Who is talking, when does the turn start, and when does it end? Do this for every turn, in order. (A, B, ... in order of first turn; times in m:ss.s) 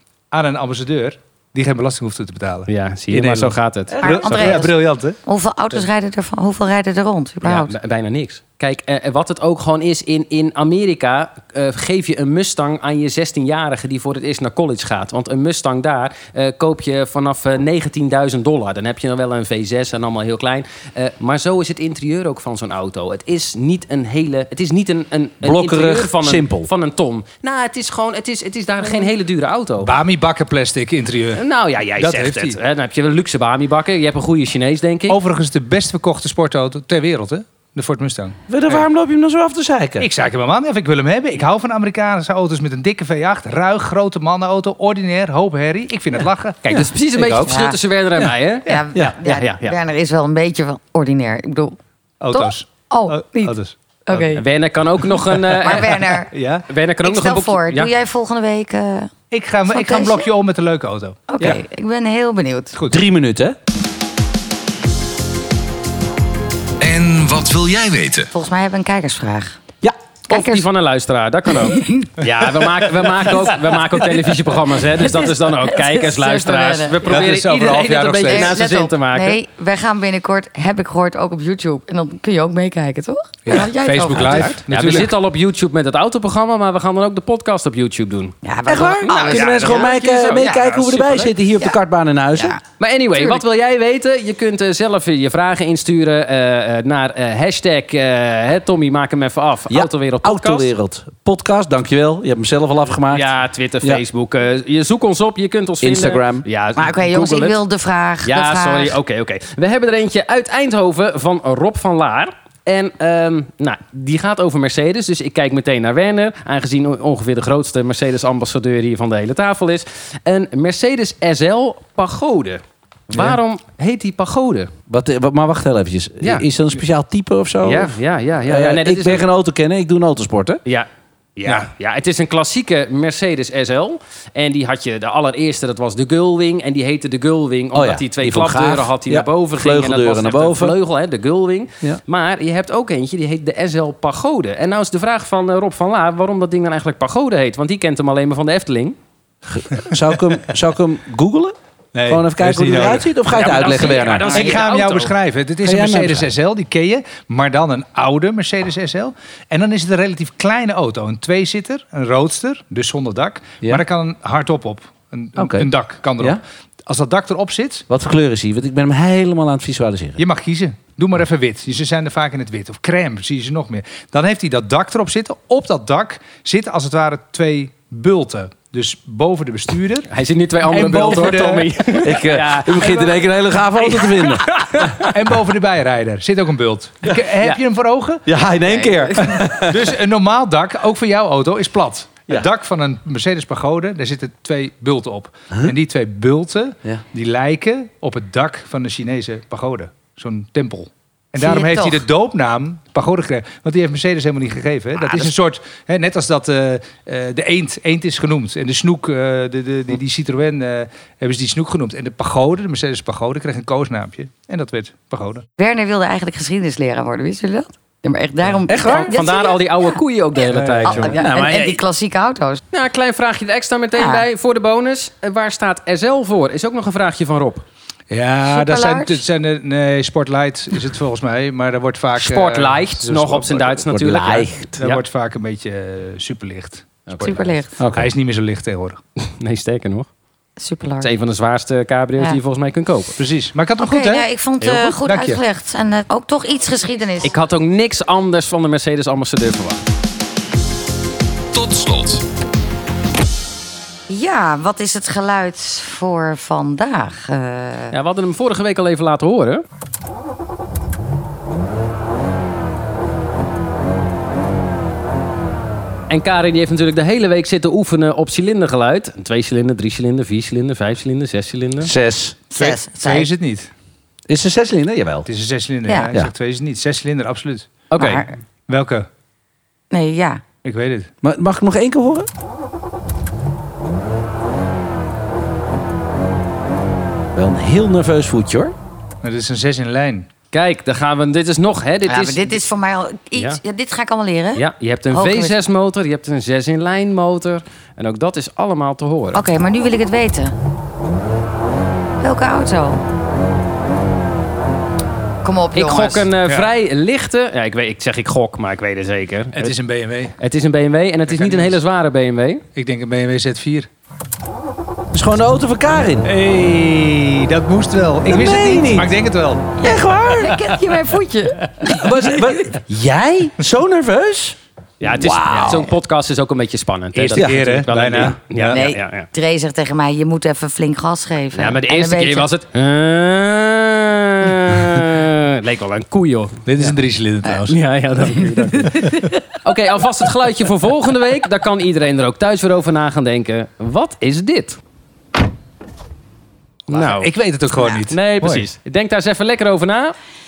0:00.3-0:05.2 A
0:02.7-0:04.0 B
0:03.9-0:04.7 C
0:04.0-0:04.7 D
0:05.2-0:07.8 D
0:07.4-0:29.9 B
0:25.4-0:26.7 C
0:29.8-0:31.4 A
0:31.4-0:35.2 B
0:32.0-0:32.6 A
0:35.1-0:38.8 A
0:38.5-0:40.1 C
0:40.0-0:46.9 A
0:46.6-0:49.8 B
0:47.2-0:47.5 C
0:47.5-0:47.8 D
0:48.6-0:51.8 D
0:52.2-0:54.3 A
0:52.3-0:53.6 D
0:54.1-0:54.4 D
0:54.4-0:57.9 B
0:55.4-0:56.3 D
0:56.3-0:56.7 A
0:57.0-0:59.1 D
0:59.3-1:01.6 A
0:59.7-1:00.3 D
1:01.3-1:02.8 D
1:02.8-1:03.0 A
1:02.9-1:03.6 C
1:06.8-1:08.3 E
1:08.3-1:09.6 D
1:10.3-1:10.7 D
1:10.3-1:19.4 B
1:11.5-1:12.2 D
1:13.4-1:14.0 A
1:14.9-1:17.1 D
1:17.0-1:18.6 A
1:18.2-1:24.6 D
1:23.5-1:25.1 A
1:24.2-1:28.4 B
1:28.4-1:30.6 D
1:28.7-1:32.6 C
1:29.1-1:31.4 B
1:32.4-1:32.6 D
1:32.8-1:40.7 B
1:33.1-1:33.4 D
1:39.7-1:43.3 C
1:43.1-1:47.6 B
1:45.8-1:46.5 C
1:46.8-1:49.0 D
1:48.2-2:04.7 B
2:04.9-2:10.6 C
2:07.6-2:09.2 B
2:10.7-2:29.0 B
2:17.7-2:20.8 C
2:29.5-2:31.5 C
2:31.9-2:47.9 A
2:32.1-2:34.5 C
2:33.3-2:35.1 B
2:34.2-2:34.6 D
2:35.6-2:36.3 C
2:45.4-2:46.4 C
2:47.9-2:50.2 C
2:50.2-3:00.1 A
3:00.1-3:02.9 B
3:00.6-3:01.8 A
3:01.9-3:05.1 C
3:02.8-3:03.2 A
3:03.8-3:08.2 A
3:08.3-3:09.9 C
3:09.2-3:35.5 A
3:21.4-3:22.0 D
3:25.0-3:25.3 C
3:35.6-3:39.6 D
3:38.7-3:39.1 C
3:38.8-3:41.2 B
3:40.5-3:41.2 A
3:40.8-3:42.6 D
3:41.2-3:41.8 C
3:42.7-3:47.6 B
3:43.9-3:44.3 D
3:48.1-3:54.1 A
3:48.4-3:49.2 D
3:52.2-3:55.0 B
3:53.9-3:54.8 C
3:54.8-3:59.0 A
3:57.1-3:57.5 B
3:57.2-3:57.7 D
3:57.8-3:58.1 C
3:59.2-4:00.1 B
4:00.6-4:01.1 D
4:01.0-4:03.2 B
4:03.2-4:04.3 A
4:03.8-4:07.3 D
4:05.0-4:05.4 A
4:07.2-4:09.9 B
4:11.5-4:12.2 E
4:14.1-4:18.0 D
4:17.9-4:19.6 B
4:26.1-4:31.9 B
4:31.8-4:32.4 C
4:32.5-4:33.3 D
4:32.6-4:33.7 A
4:34.3-4:35.3 C
4:35.3-4:39.1 A
4:35.9-4:36.1 D
4:37.9-4:38.2 B
4:38.0-4:38.3 D
4:39.9-4:40.4 D
4:40.6-4:41.1 A
4:41.2-4:42.3 C
4:47.4-4:48.8 C
4:49.2-4:50.3 A
4:50.5-4:52.6 B
4:52.0-4:55.6 D
4:54.6-4:59.4 B
4:59.3-5:00.6 D
5:02.2-5:03.0 D
5:05.4-5:06.3 D
5:05.8-5:09.8 B
5:06.4-5:06.7 A
5:09.5-5:10.4 A
5:10.4-5:12.6 B
5:11.3-5:11.8 A
5:12.8-5:13.9 A
5:15.1-5:16.3 C
5:16.2-5:19.8 A
5:18.2-5:19.1 C
5:19.8-5:20.6 C
5:19.8-5:22.0 D
5:20.4-5:20.7 A
5:21.8-5:22.7 A
5:21.9-5:24.6 C
5:25.0-5:29.3 B
5:25.1-5:25.9 C
5:27.2-5:28.8 A
5:28.7-5:32.5 D
5:31.6-5:36.9 B
5:36.7-5:39.2 A
5:37.5-5:44.8 B
5:46.9-5:50.2 B
5:46.9-5:48.6 A